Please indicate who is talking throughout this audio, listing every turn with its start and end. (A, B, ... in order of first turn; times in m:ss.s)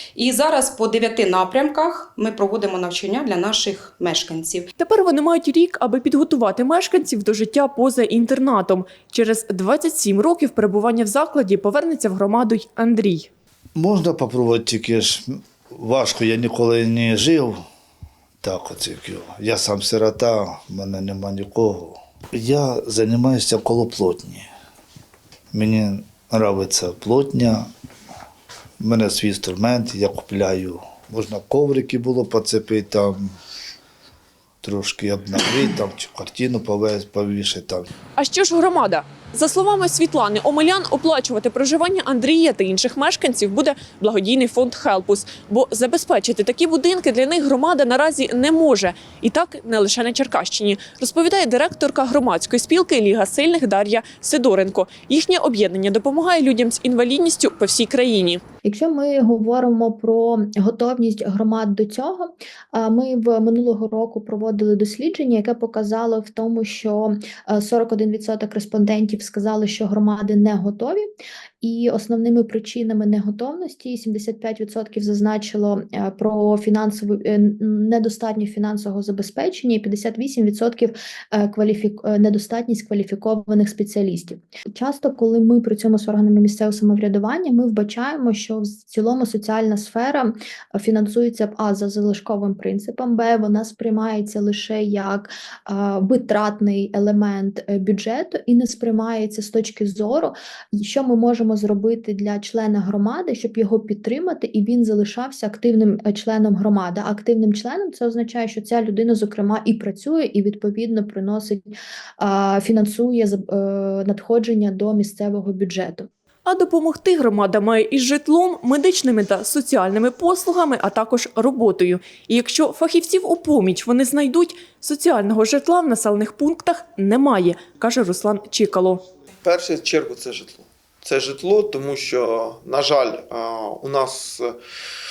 0:00.3-0:04.5 A
0:04.8-0:13.3 B
0:13.8-0:15.3 C
0:15.8-0:17.6 C
0:18.4-0:24.5 C
0:25.5-0:27.7 C
0:28.8-0:33.3 C
0:34.6-0:37.9 C
0:38.2-0:58.4 B
0:58.6-1:11.0 D
1:11.6-1:56.1 D
1:56.5-2:09.0 B
2:09.4-2:14.6 E